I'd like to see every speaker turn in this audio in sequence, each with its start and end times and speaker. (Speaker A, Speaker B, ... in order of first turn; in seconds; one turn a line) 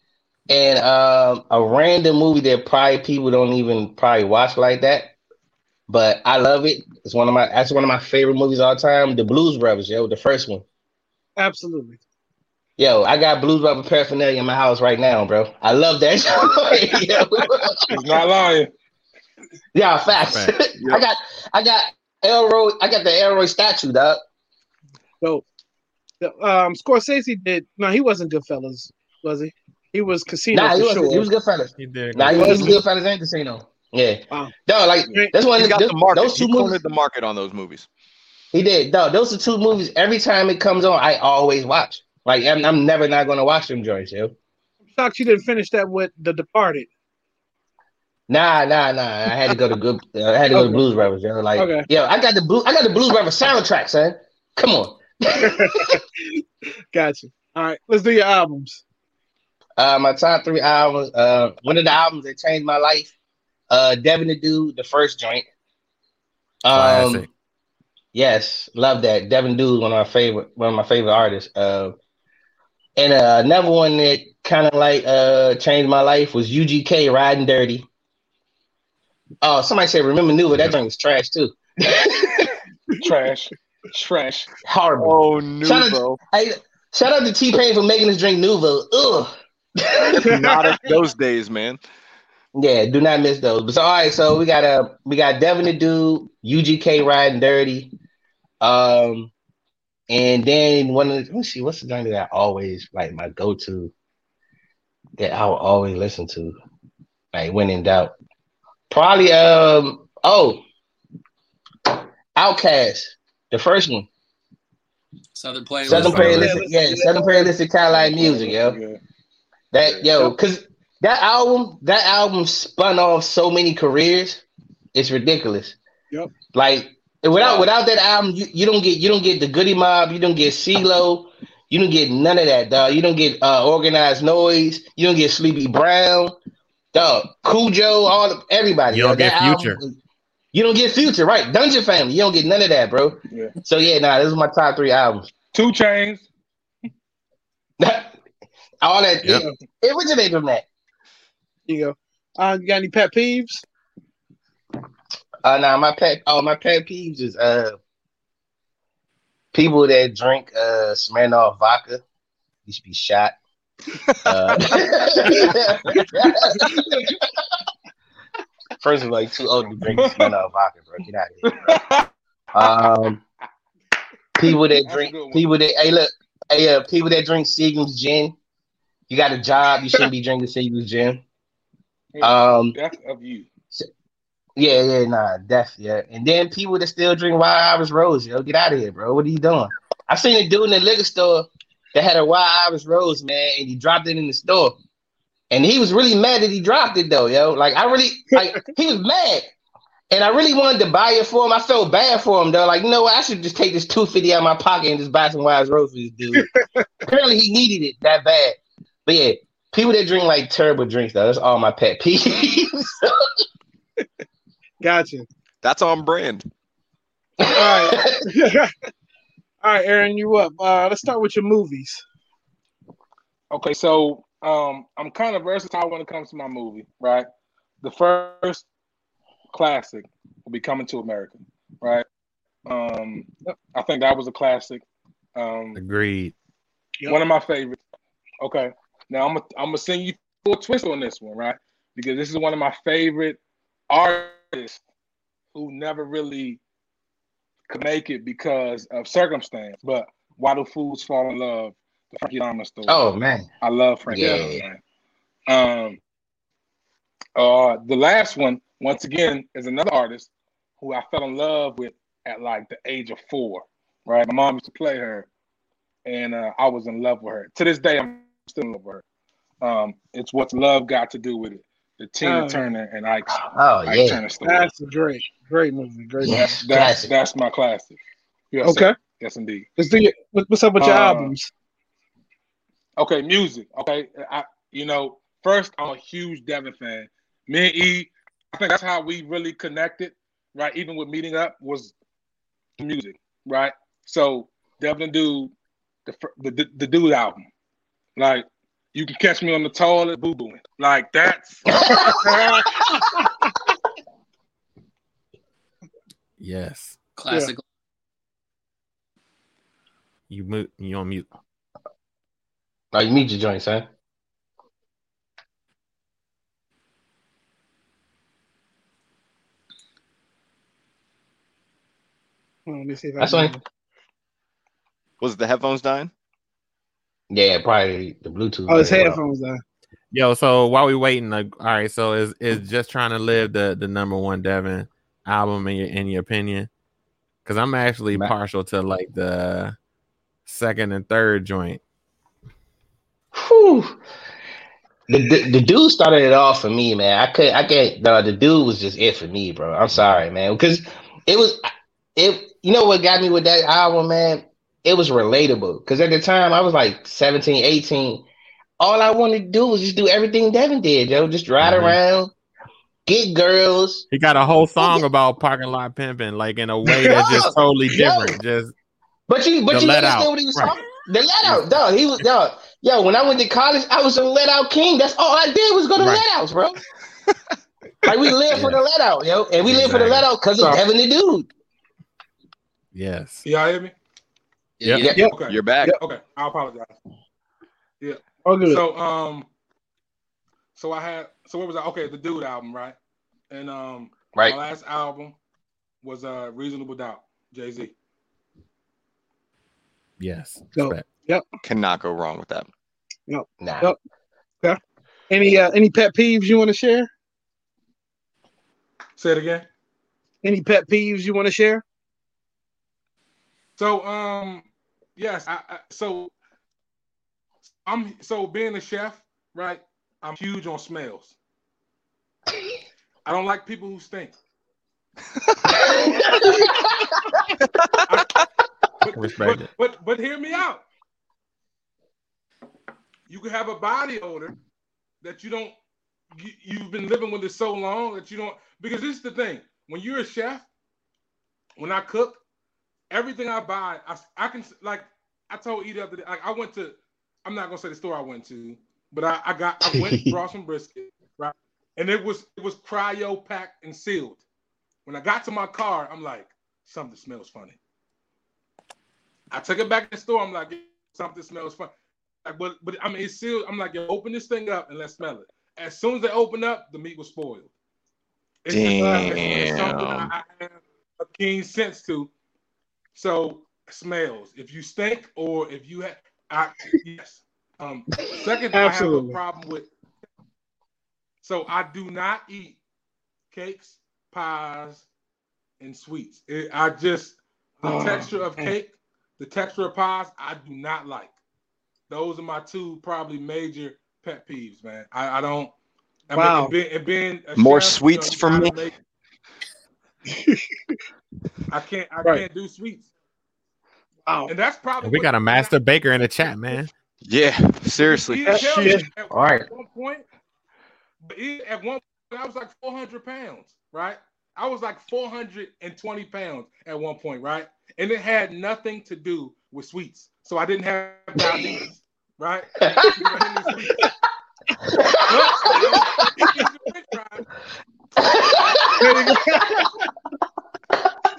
Speaker A: 0.5-5.1
Speaker A: 5.9-10.6
Speaker B: 11.4-12.0
Speaker A: 12.8-18.0
Speaker C: 17.9-18.7
Speaker A: 19.7-24.2
Speaker D: 20.1-20.6
Speaker E: 20.8-21.0
Speaker B: 26.2-31.3
Speaker A: 30.5-36.8
Speaker D: 31.8-32.8
Speaker B: 32.3-32.8
Speaker B: 35.1-35.4
Speaker E: 35.5-37.9
Speaker A: 38.5-44.3
Speaker B: 44.9-46.9
Speaker A: 48.3-56.0
Speaker B: 50.5-51.9
Speaker B: 55.3-58.8
Speaker A: 59.8-63.1
Speaker A: 63.7-65.5
Speaker A: 66.6-67.2
Speaker D: 66.7-67.3
Speaker A: 68.1-72.0
Speaker A: 73.0-77.8
Speaker A: 79.4-82.5
Speaker C: 83.0-84.5
Speaker A: 84.7-90.4
Speaker E: 85.0-86.2
Speaker B: 90.2-90.5
Speaker E: 90.3-91.8
Speaker A: 92.5-97.9
Speaker A: 98.6-99.3
Speaker A: 100.1-103.9
Speaker A: 105.2-106.5
Speaker A: 107.3-108.1
Speaker A: 108.9-110.6
Speaker A: 111.9-114.1
Speaker F: 115.3-116.5
Speaker D: 115.9-116.5
Speaker A: 115.9-118.8
Speaker B: 116.3-117.5
Speaker C: 117.9-119.0
Speaker A: 119.7-124.4
Speaker C: 119.8-120.3
Speaker A: 124.9-125.8
Speaker A: 126.5-136.3
Speaker C: 127.3-127.7
Speaker A: 136.9-139.9
Speaker D: 138.9-139.8
Speaker A: 140.5-145.3
Speaker C: 145.5-146.3
Speaker A: 147.8-148.1
Speaker A: 148.8-150.6
Speaker B: 149.2-149.5
Speaker B: 151.7-153.6
Speaker A: 155.4-157.8
Speaker A: 159.5-162.0
Speaker A: 162.7-163.3
Speaker E: 164.1-164.4
Speaker A: 164.2-167.1
Speaker B: 165.3-167.1
Speaker A: 168.8-171.7
Speaker C: 170.0-170.3
Speaker C: 171.6-172.8
Speaker A: 172.5-173.2
Speaker A: 174.4-178.3
Speaker C: 174.5-175.5
Speaker A: 179.1-181.2
Speaker C: 182.1-183.5
Speaker A: 182.2-182.8
Speaker A: 184.6-194.8
Speaker A: 195.5-199.5
Speaker A: 200.1-206.5
Speaker B: 206.3-206.8
Speaker A: 207.1-213.3
Speaker B: 214.8-215.2
Speaker E: 215.6-216.4
Speaker A: 217.4-218.3
Speaker B: 217.5-218.7
Speaker B: 219.6-222.0
Speaker C: 223.5-227.2
Speaker C: 227.8-228.6
Speaker C: 229.5-232.1
Speaker C: 232.7-234.8
Speaker C: 235.3-235.8
Speaker D: 235.7-236.3
Speaker C: 237.1-237.8
Speaker C: 238.4-243.4
Speaker C: 243.9-244.8
Speaker C: 245.5-246.6
Speaker C: 247.7-253.0
Speaker A: 252.9-253.5
Speaker C: 253.6-254.8
Speaker A: 254.1-254.6
Speaker C: 255.5-256.0
Speaker C: 257.4-265.3
Speaker C: 266.0-269.0
Speaker C: 269.6-274.7
Speaker B: 272.2-272.7
Speaker A: 273.3-274.2
Speaker B: 274.4-276.6
Speaker A: 276.2-277.1
Speaker C: 276.6-278.0
Speaker C: 278.5-279.7
Speaker B: 278.6-278.9
Speaker B: 279.8-281.5
Speaker C: 280.8-281.3
Speaker C: 283.0-291.9
Speaker C: 292.8-295.5
Speaker C: 296.1-297.4
Speaker C: 298.2-301.7
Speaker A: 301.7-302.4
Speaker B: 302.1-303.3
Speaker D: 306.4-307.0
Speaker F: 307.1-307.6
Speaker D: 310.3-311.3
Speaker A: 312.9-313.9
Speaker B: 322.7-323.6
Speaker A: 323.2-323.5
Speaker E: 325.2-326.1
Speaker A: 327.3-329.2
Speaker B: 328.7-329.6
Speaker D: 330.1-336.7
Speaker D: 337.4-339.7
Speaker D: 340.5-341.8
Speaker A: 343.3-344.0
Speaker A: 345.1-351.6
Speaker D: 349.9-350.2
Speaker A: 352.1-358.2
Speaker A: 358.8-362.3
Speaker D: 361.6-362.0
Speaker A: 363.1-364.1
Speaker D: 364.1-368.7
Speaker B: 366.8-367.4
Speaker A: 367.1-368.4
Speaker A: 369.3-376.8
Speaker D: 369.7-370.7
Speaker D: 371.4-371.7
Speaker A: 378.0-381.5
Speaker D: 378.5-378.8
Speaker D: 379.6-380.3
Speaker D: 382.9-383.4
Speaker C: 383.4-383.9
Speaker F: 384.8-385.2
Speaker D: 384.8-385.1
Speaker A: 385.0-385.3
Speaker B: 385.1-386.0
Speaker C: 385.2-386.9
Speaker E: 385.5-386.0
Speaker C: 388.0-389.5
Speaker B: 388.4-388.8
Speaker C: 390.8-392.9
Speaker C: 393.5-395.4
Speaker C: 396.0-397.9
Speaker D: 400.2-401.1
Speaker B: 400.8-401.4
Speaker E: 401.6-402.7
Speaker B: 403.3-404.0
Speaker A: 403.6-403.9
Speaker B: 405.3-407.1
Speaker C: 409.2-409.6
Speaker B: 410.4-411.8
Speaker C: 413.8-416.3
Speaker C: 417.8-421.3
Speaker C: 423.2-424.3
Speaker A: 425.7-427.4
Speaker C: 428.1-428.3
Speaker C: 429.0-430.8
Speaker D: 429.1-429.7
Speaker C: 433.3-434.6
Speaker C: 435.2-435.7
Speaker C: 436.3-440.6
Speaker C: 441.8-442.4
Speaker C: 443.1-454.4
Speaker A: 449.8-450.3
Speaker C: 455.1-457.8
Speaker C: 459.5-461.9
Speaker C: 462.4-467.7
Speaker C: 468.6-472.3
Speaker E: 468.7-470.3
Speaker B: 469.0-469.4
Speaker C: 473.1-479.9
Speaker B: 478.7-479.4
Speaker C: 481.4-482.8
Speaker C: 483.5-485.1
Speaker C: 485.8-491.3
Speaker B: 487.8-488.7
Speaker C: 492.1-495.7
Speaker C: 496.3-498.9
Speaker B: 496.3-496.7
Speaker E: 497.6-498.8
Speaker B: 500.3-500.6
Speaker C: 501.7-503.1
Speaker B: 504.2-504.5
Speaker C: 504.5-505.7
Speaker D: 505.0-506.9
Speaker E: 507.2-509.0
Speaker C: 508.0-510.2
Speaker B: 508.5-509.0
Speaker A: 509.3-509.6
Speaker C: 511.2-524.1
Speaker A: 521.4-521.7
Speaker A: 522.8-523.4
Speaker B: 523.8-524.1
Speaker A: 524.8-526.5
Speaker C: 525.3-527.5
Speaker A: 528.2-529.9
Speaker B: 529.0-529.9